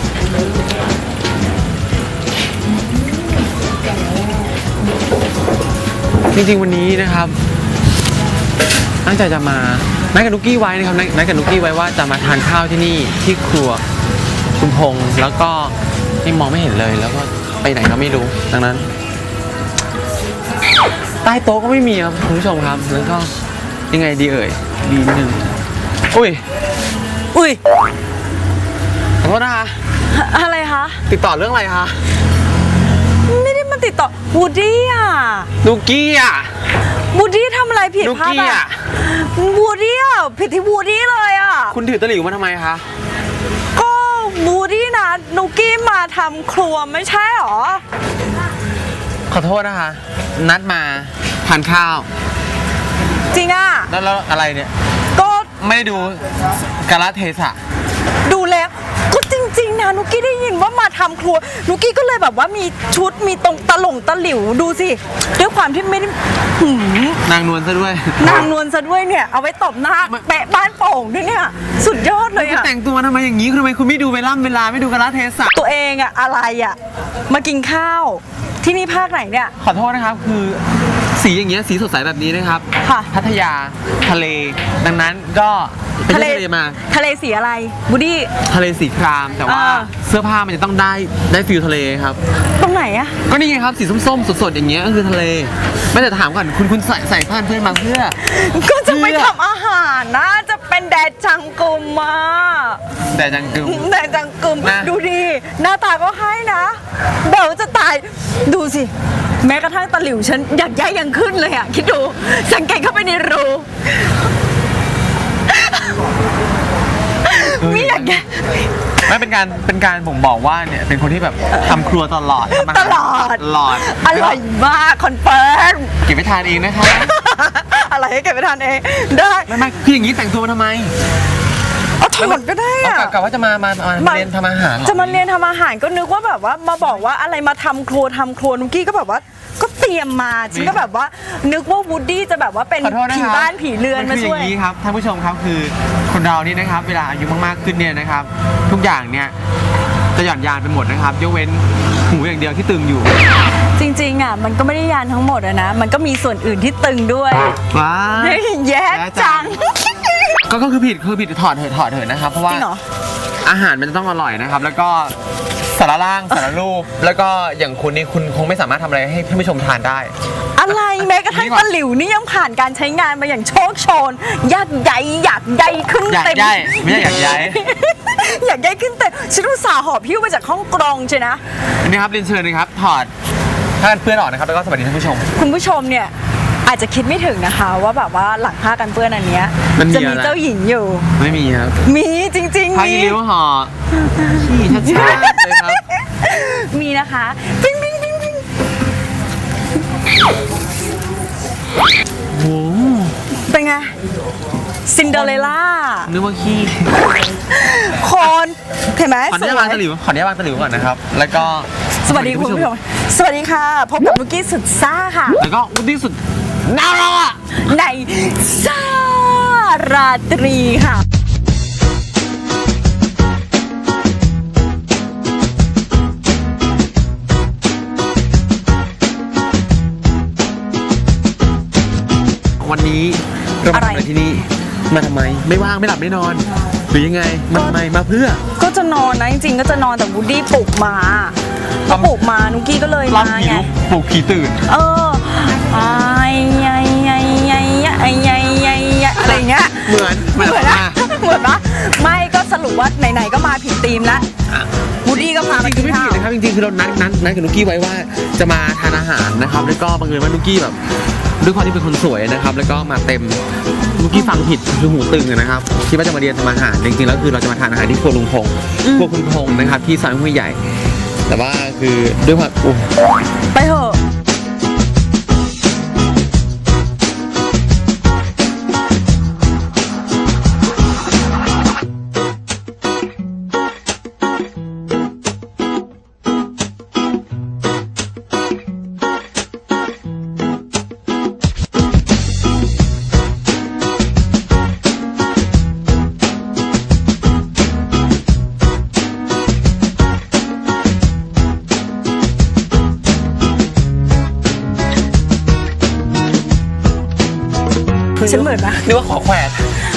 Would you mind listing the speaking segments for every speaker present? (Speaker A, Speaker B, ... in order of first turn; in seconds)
Speaker A: 6.3-7.4, 9.0-13.8, 14.5-18.9, 21.2-23.3, 23.9-25.5, 26.1-26.4, 29.2-29.8, 31.1-32.0, 35.6-36.5, 38.0-38.8, 41.7-42.9, 49.3-52.1, 53.9-54.7, 55.6-56.2, 56.8-57.6, 67.2-68.5, 72.3-75.5, 79.6-86.8, 88.5-92.2, 93.3-98.2, 98.8-99.4, 103.1-103.9, 104.6-104.9, 117.5-118.2, 119.0-124.4, 126.0-127.1, 129.5-130.9, 132.2-135.2, 140.5-140.8, 142.8-149.3, 150.2-153.1, 157.7-159.6, 160.4-162.7, 163.4-170.1, 170.7-171.7, 176.1-177.6, 181.8-183.1, 183.8-185.3, 189.8-190.4, 191.2-191.8, 192.7-195.8, 202.3-203.2, 205.1-205.5, 206.1-207.1, 209.3-212.7, 215.4-217.4, 232.6-238.4, 241.9-242.1, 243.1-244.6, 249.2-251.0, 254.5-260.8, 261.4-263.4, 264.0-270.6, 271.3-272.9, 308.2-309.6
Speaker B: 27.3-27.6, 30.1-31.0, 33.2-35.5, 37.1-41.8, 43.8-47.8, 53.3-53.9, 55.1-55.5, 58.2-67.2, 68.2-72.7, 75.5-76.8, 77.3-79.5, 82.8-83.1, 86.1-88.3, 89.5-89.9, 92.6-93.2, 98.2-102.8, 103.6-113.7, 115.5-116.0, 117.2-118.6, 122.5-125.9, 126.9-129.5, 132.0-133.2, 134.0-134.3, 134.8-144.5, 153.8-157.5, 158.2-160.3, 162.5-162.8, 170.6-181.4, 185.3-186.1, 186.6-191.1, 191.8-193.2, 194.1-198.5, 203.5-203.9, 204.9-206.1, 207.5-209.8, 212.0-215.4, 217.6-221.0, 233.7-234.1, 237.5-237.8, 238.6-243.7, 244.7-254.3, 255.1-256.3, 268.8-269.1, 273.5-274.0, 308.2-308.9